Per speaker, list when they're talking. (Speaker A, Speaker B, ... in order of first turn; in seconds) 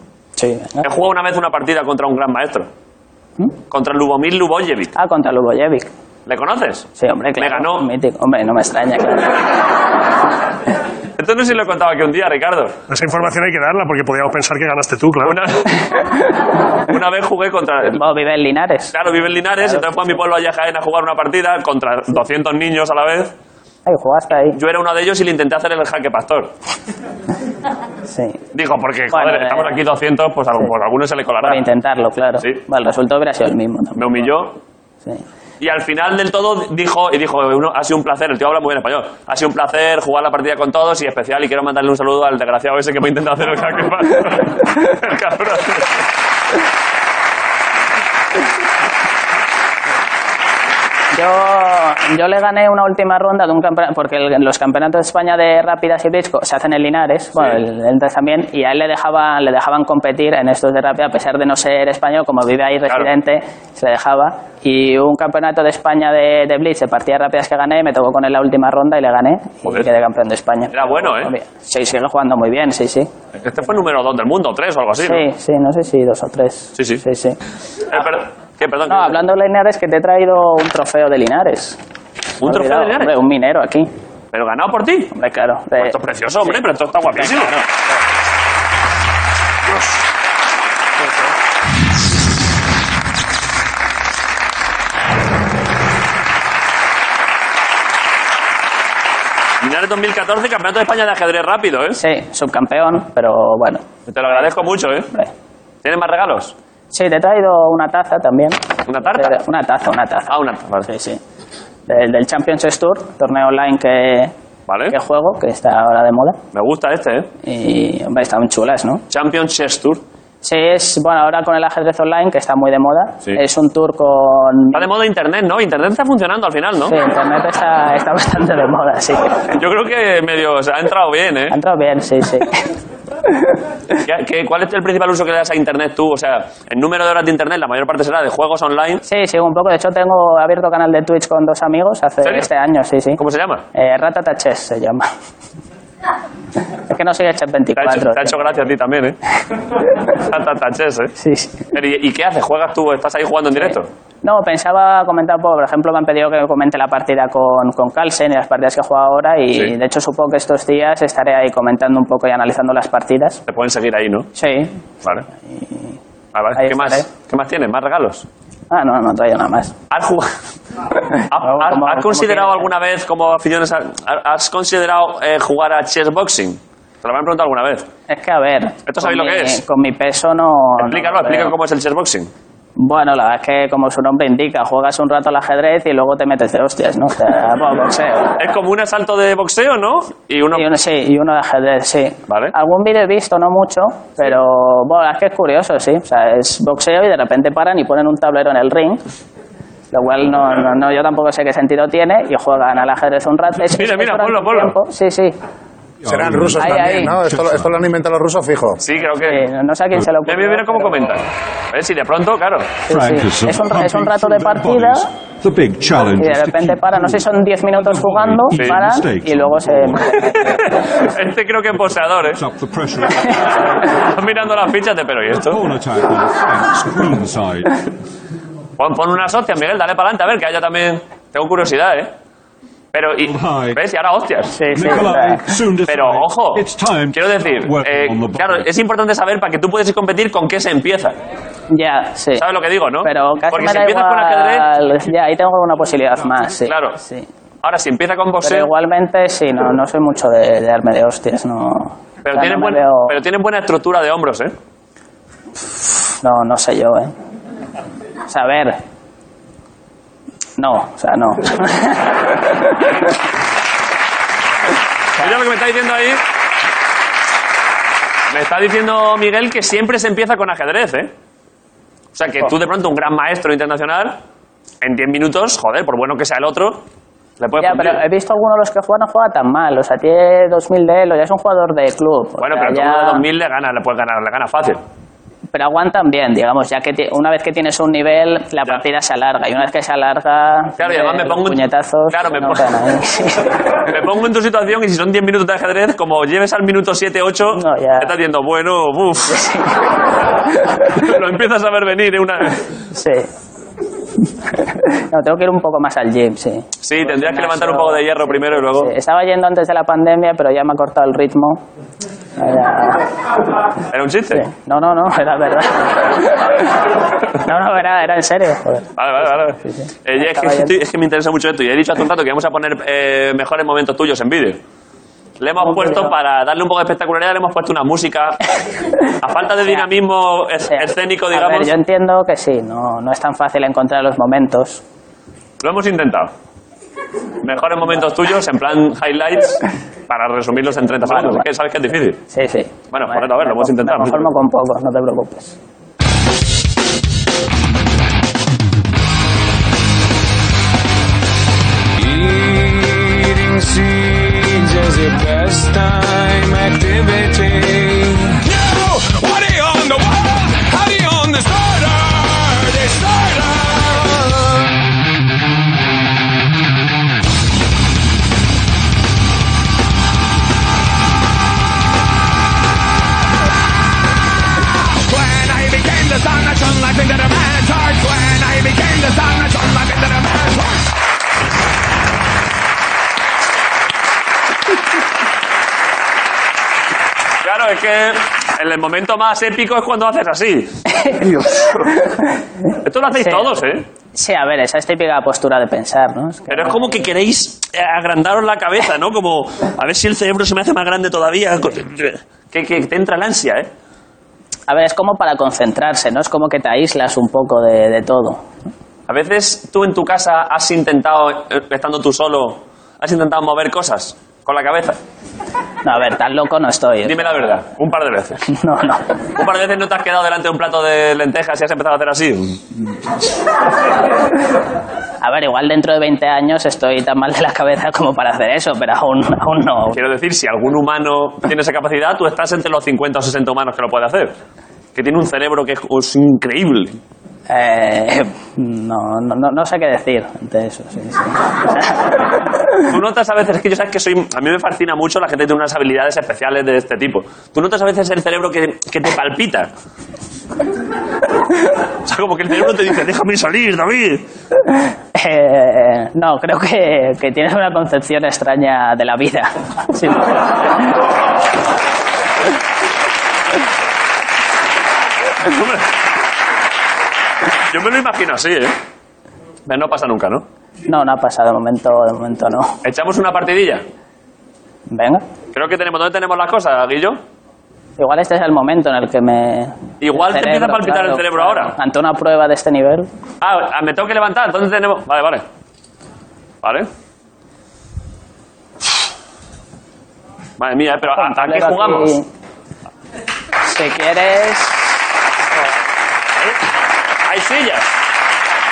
Speaker A: 0.4-0.9, 5.0-5.9, 7.0-9.4, 18.0-19.0, 19.6-20.2, 23.9-24.6, 28.1-28.4, 29.1-29.8, 31.4-34.2, 51.1-73.1, 75.0-77.4, 78.9-81.8, 82.4-83.9, 85.1-86.6, 87.2-87.7, 102.0-104.5, 106.9-111.2, 111.9-114.3, 114.9-116.4, 117.4-119.0, 120.4-124.9, 126.9-129.5, 131.5-132.7, 139.1-143.2, 143.8-145.1, 146.8-148.4, 151.2-151.7, 153.6-163.4, 164.3-164.8, 165.6-165.9, 166.6-167.1, 168.7-169.7, 171.1-172.7, 178.1-181.5, 182.8-188.4, 190.6-199.0, 199.9-205.3, 206.6-207.1, 209.2-211.1, 212.9-215.1, 216.2-220.7, 234.6-235.5, 241.7-242.4, 243.0-247.3, 248.4-253.2, 256.2-257.1, 258.3-258.8, 260.6-262.9, 277.6-283.2, 285.5-293.7, 297.5-298.1, 299.3-299.9, 302.9-303.3, 304.5-311.6, 312.4-313.0, 314.3-316.7, 317.3-318.9, 319.6-320.7, 325.6-326.1, 330.7-334.8, 341.0-341.4, 342.3-345.6, 390.9-392.4, 393.2-393.5, 394.1-397.0, 404.7-408.4, 415.9-417.4, 418.5-419.0, 425.2-430.0, 437.5-442.2, 455.1-460.4, 470.9-472.8, 474.9-475.2, 478.0-483.1, 491.1-492.3, 493.6-495.0
Speaker B: 0.8-2.7, 3.7-4.9, 6.3-7.9, 11.2-12.8, 15.2-15.9, 16.9-18.0, 18.9-23.3, 24.6-26.5, 28.6-31.6, 34.0-34.6, 35.6-46.0, 70.7-71.3, 73.4-75.2, 76.8-77.0, 77.9-79.2, 82.4-83.1, 84.3-85.1, 85.8-87.5, 89.7-90.0, 99.6-102.0, 104.1-105.1, 105.8-106.5, 108.9-109.4, 110.3-110.9, 114.7-115.0, 116.5-117.3, 119.1-120.0, 124.7-127.0, 129.5-131.6, 134.0-139.0, 143.2-143.6, 147.8-149.2, 150.0-151.1, 151.7-153.9, 163.5-164.3, 166.3-168.3, 169.9-170.3, 171.3-177.9, 178.9-179.6, 180.8-182.3, 188.4-190.7, 192.3-192.5, 203.7-204.8, 208.8-209.4, 210.3-212.7, 220.3-222.4, 223.9-225.6, 228.8-232.1, 232.9-234.6, 235.9-241.2, 242.4-244.7, 246.7-247.0, 247.6-248.7, 252.2-254.5, 265.2-266.2, 268.3-271.1, 272.1-274.2, 274.8-276.8, 277.4-278.0, 282.4-284.8, 290.8-292.6, 293.9-299.4, 300.8-302.6, 306.8-308.9, 313.9-314.4, 319.0-324.6, 325.4-328.4, 329.2-331.7, 335.6-336.3, 337.4-342.2, 342.9-344.3, 387.4-391.8, 392.8-393.9, 396.5-403.7, 409.1-415.0, 417.1-418.4, 419.4-422.6, 429.9-434.3, 434.9-437.0, 442.8-449.7, 452.1-454.2, 465.4-465.9, 467.7-468.8, 469.7-470.4, 472.8-473.8, 475.5-477.2, 480.0-481.7, 483.4-485.4, 486.6-486.9, 490.6-492.2, 497.2-497.9
Speaker C: 12.9-15.4
Speaker D: 206.0-207.7, 212.9-220.1, 222.3-223.6, 225.3-227.8, 233.3-233.8, 234.7-238.7
Speaker E: 206.1-208.8
Speaker F: 352.0-364.6, 374.9-380.7